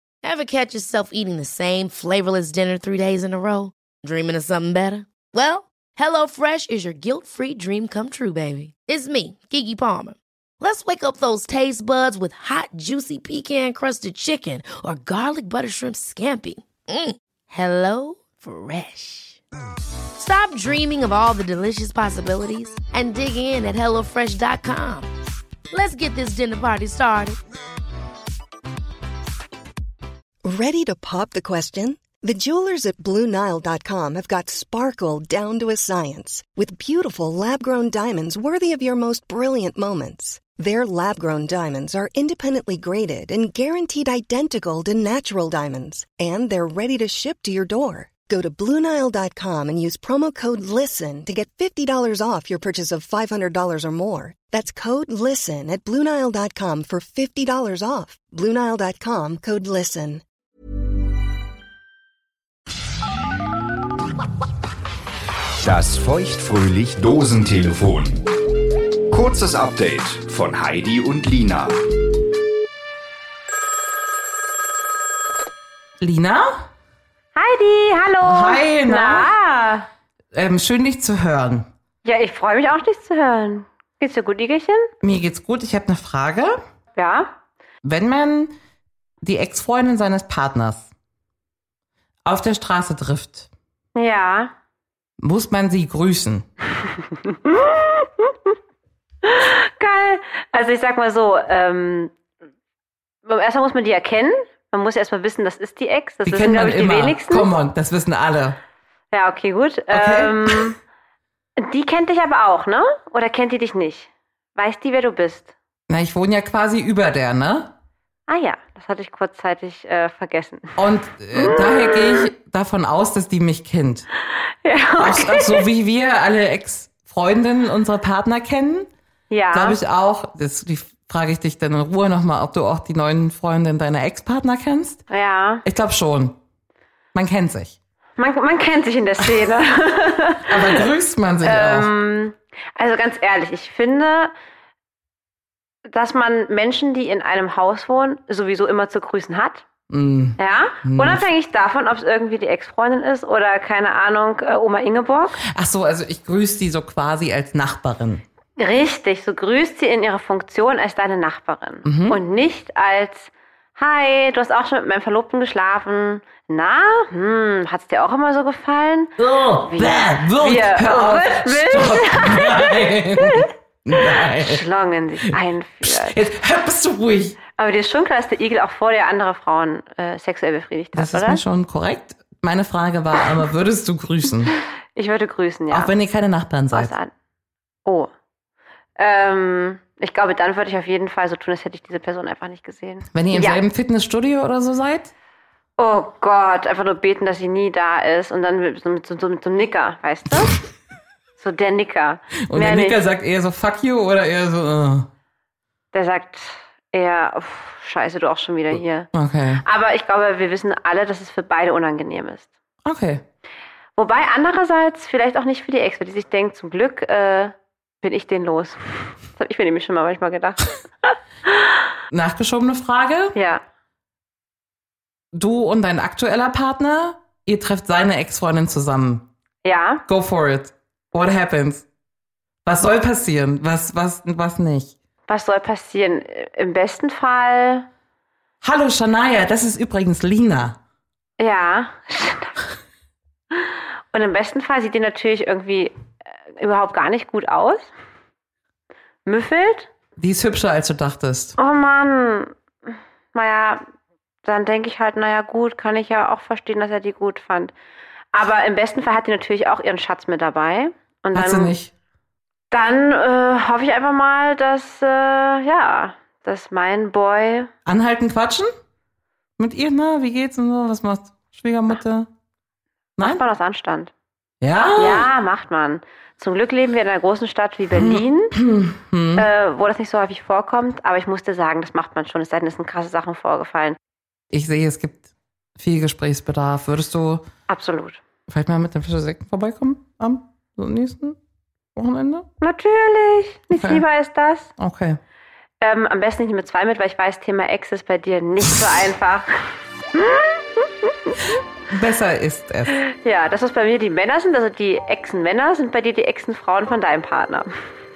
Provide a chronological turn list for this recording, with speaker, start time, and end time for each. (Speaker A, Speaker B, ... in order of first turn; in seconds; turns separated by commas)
Speaker A: 0.2-19.4, Speaker A: 20.1-25.1, Speaker A: 25.7-27.4, Speaker B: 30.4-60.2, Speaker C: 65.6-68.2, Speaker C: 69.1-71.8, Speaker D: 76.0-76.6, Speaker E: 77.3-79.9, Speaker D: 78.2-79.3, Speaker D: 80.3-81.7, Speaker E: 82.0-84.9, Speaker D: 85.0-86.6, Speaker E: 86.9-87.3, Speaker D: 87.8-88.5, Speaker D: 89.2-90.9, Speaker D: 92.2-93.5, Speaker E: 93.9-94.5, Speaker D: 95.2-96.5, Speaker E: 97.3-98.3, Speaker E: 99.2-102.1, Speaker E: 103.2-107.5, Speaker D: 106.2-108.6, Speaker E: 109.1-110.8, Speaker D: 109.9-110.6, Speaker E: 111.6-115.5, Speaker D: 115.9-117.7, Speaker E: 118.3-120.7, Speaker D: 120.8-124.1, Speaker E: 121.3-121.8, Speaker E: 124.6-125.6, Speaker D: 125.0-128.9, Speaker E: 129.3-129.8, Speaker D: 129.5-135.0, Speaker E: 135.1-135.6, Speaker D: 135.6-136.4, Speaker D: 137.1-137.7, Speaker E: 138.2-140.7, Speaker D: 140.5-141.9, Speaker E: 141.4-144.3, Speaker E: 145.9-149.6, Speaker D: 149.9-151.2, Speaker E: 150.4-155.4, Speaker D: 155.5-158.2, Speaker E: 158.6-169.1, Speaker D: 161.8-162.2, Speaker D: 169.2-174.6, Speaker E: 169.6-172.7, Speaker E: 174.3-176.2, Speaker D: 175.8-177.4, Speaker E: 177.6-181.4, Speaker D: 180.9-184.5, Speaker E: 184.9-185.9, Speaker D: 185.7-186.9, Speaker E: 186.7-187.1, Speaker E: 187.8-188.1, Speaker E: 189.0-193.6, Speaker D: 193.1-195.1, Speaker E: 195.8-200.6, Speaker E: 201.4-203.0, Speaker D: 202.5-205.1, Speaker E: 205.9-209.1, Speaker D: 209.1-209.6, Speaker E: 209.6-212.5, Speaker D: 212.8-213.2, Speaker E: 214.0-221.5, Speaker D: 222.1-223.3, Speaker E: 223.3-223.6, Speaker D: 225.3-229.3, Speaker E: 229.6-230.0, Speaker D: 230.1-231.8, Speaker D: 232.6-234.9, Speaker E: 235.3-237.8, Speaker D: 238.6-240.8, Speaker E: 241.4-242.5, Speaker E: 243.5-245.9, Speaker E: 246.6-247.9, Speaker E: 249.2-249.9, Speaker D: 250.2-251.6, Speaker E: 251.6-252.5, Speaker E: 253.3-253.8, Speaker E: 254.4-257.7, Speaker E: 258.3-261.7, Speaker D: 261.3-261.9, Speaker E: 262.7-267.7, Speaker D: 267.8-268.7, Speaker D: 269.6-272.3, Speaker E: 273.2-274.1, Speaker D: 274.6-275.3, Speaker E: 274.9-278.5, Speaker D: 278.0-279.4, Speaker E: 279.4-284.0, Speaker D: 284.5-287.5, Speaker E: 287.7-288.2, Speaker D: 288.5-291.4, Speaker D: 291.9-292.5, Speaker E: 292.6-294.7, Speaker D: 293.7-294.0, Speaker D: 294.8-295.2, Speaker E: 295.8-299.5, Speaker E: 300.1-301.1, Speaker D: 301.9-303.0, Speaker E: 303.0-307.7